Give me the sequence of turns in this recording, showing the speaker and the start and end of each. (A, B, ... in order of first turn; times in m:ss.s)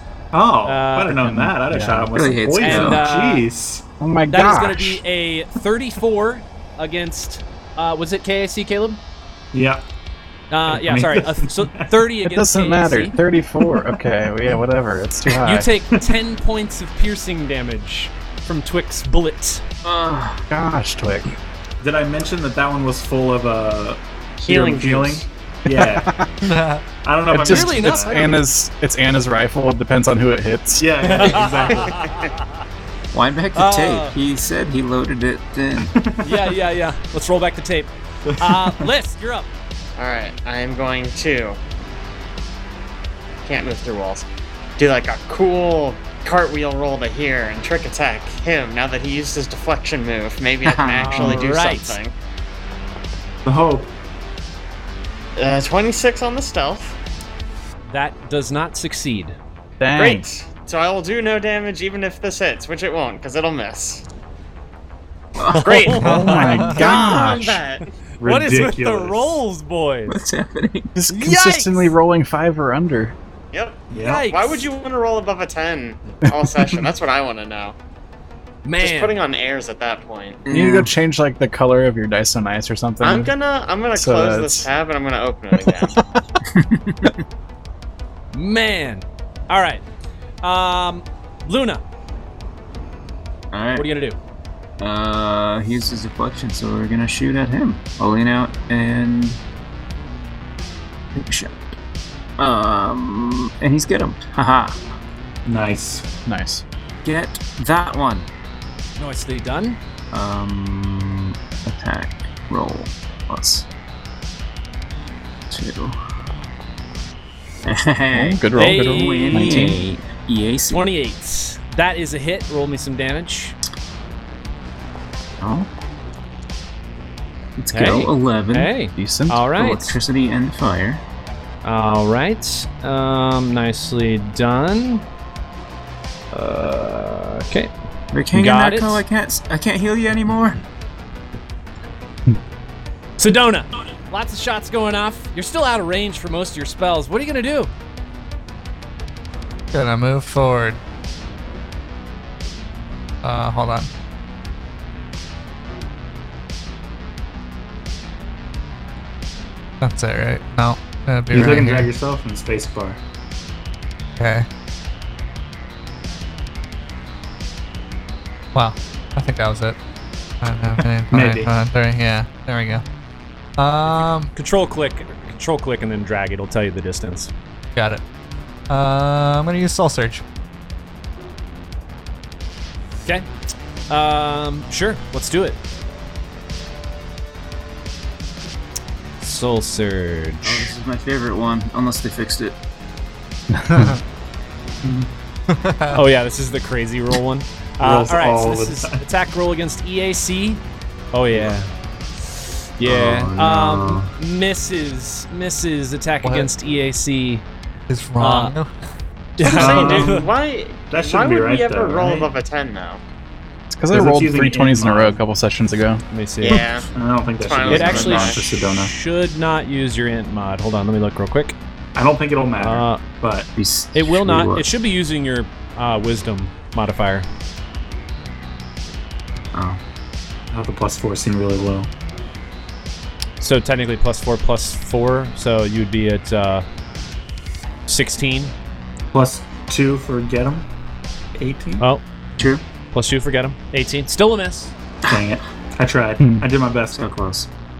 0:00.3-0:03.8 A
0:00.6-0:01.2 B
0:01.2-0:02.1 C
0:02.1-0:03.0 D
0:02.6-0:03.4 B
0:04.0-0:05.0 C
0:04.3-0:09.0 B
0:09.5-0:09.8 A
0:10.5-0:13.2 B
0:10.7-0:12.0 A
0:12.2-0:15.7 C
0:15.4-0:19.6 B
0:19.8-0:20.4 D
0:20.5-0:21.3 C
0:21.8-0:26.1 A
0:24.4-0:25.2 E
0:25.7-0:26.3 C
0:26.4-0:26.8 F
0:27.0-0:28.4 A
0:27.3-0:31.2 C
0:27.4-0:28.4 B
0:30.8-0:32.0 A
0:31.0-0:32.3 B
0:33.1-0:35.9 D
0:33.5-0:34.1 B
0:35.8-0:36.3 A
0:36.2-0:39.5 B
0:38.2-0:38.8 A
0:40.0-0:41.6 E
0:43.4-0:44.2 E
0:44.8-0:52.1 E
0:50.6-0:51.4 D
0:51.0-0:52.0 B
0:53.4-0:53.9 A
0:55.4-0:57.0 E
0:57.9-0:59.4 B
0:59.8-1:00.2 C
0:59.9-1:04.0 E
1:05.4-1:06.0 D
1:05.5-1:06.6 B
1:05.5-1:07.9 E
1:06.0-1:07.6 C
1:06.0-1:06.9 F
1:08.2-1:09.4 A
1:08.2-1:10.2 B
1:10.1-1:10.9 D
1:10.9-1:13.2 C
1:11.1-1:11.9 B
1:13.5-1:17.8 E
1:13.9-1:14.2 A
1:14.0-1:14.6 B
1:16.2-1:16.9 C
1:18.6-1:19.1 B
1:18.8-1:20.4 E
1:20.4-1:20.9 D
1:20.5-1:23.3 C
1:23.0-1:26.0 E
1:23.9-1:24.7 C
1:25.6-1:25.9 C
1:26.4-1:27.2 D
1:28.3-1:29.8 B
1:30.4-1:31.8 B
1:33.5-1:33.9 D
1:33.7-1:34.2 B
1:34.8-1:39.4 D
1:41.1-1:41.5 D
1:42.4-1:44.8 D
1:45.4-1:46.0 A
1:46.2-1:46.6 C
1:47.0-1:48.3 D
1:49.0-1:49.8 B
1:50.1-1:53.7 D
1:55.5-1:56.0 D
1:57.6-2:00.9 D
1:58.1-1:59.8 C
1:58.5-1:59.7 B
2:00.7-2:03.6 B
2:05.4-2:05.7 D
2:07.6-2:08.7 D
2:07.7-2:10.0 B
2:09.0-2:09.4 C
2:09.5-2:11.0 D
2:11.6-2:15.0 B
2:16.3-2:17.7 B
2:18.1-2:20.6 D
2:18.3-2:19.0 B
2:23.2-2:27.7 B
2:29.7-2:30.8 F
2:33.2-2:33.9 F
2:39.8-2:41.9 F
2:41.3-2:43.0 A
2:44.2-2:44.4 F
2:48.5-2:49.8 F
2:50.4-2:52.8 F
2:51.1-2:51.5 A
2:53.6-2:54.3 F
2:54.3-2:57.3 B
2:57.7-2:58.0 F
2:58.7-3:00.2 F
3:03.9-3:05.6 B
3:09.2-3:10.7 B
3:10.4-3:12.6 D
3:13.5-3:14.0 C
3:14.8-3:15.1 A
3:15.5-3:16.0 F
3:15.9-3:20.6 B
3:17.8-3:19.0 A
3:21.1-3:21.7 B
3:22.8-3:27.4 B
3:22.8-3:24.1 D
3:26.2-3:26.5 F
3:27.9-3:28.7 F
3:28.2-3:28.5 B
3:29.4-3:30.3 B
3:29.4-3:30.2 A
3:29.6-3:33.0 E
3:30.9-3:32.3 A
3:33.7-3:36.0 C
3:33.9-3:35.2 A
3:36.1-3:36.6 B
3:36.4-3:36.9 E
3:36.9-3:38.9 A
3:37.4-3:38.4 E
3:37.7-3:41.6 B
3:41.9-3:43.5 A
3:42.6-3:43.0 B
3:43.6-3:44.7 D
3:43.9-3:47.3 B
3:49.5-3:49.8 D
3:50.5-3:51.9 A
3:53.4-3:56.6 B
3:57.9-3:58.5 B
3:59.1-4:00.7 A
4:01.4-4:01.8 A
4:02.4-4:02.6 D
4:02.9-4:04.7 B
4:05.1-4:07.0 A
4:06.9-4:07.5 D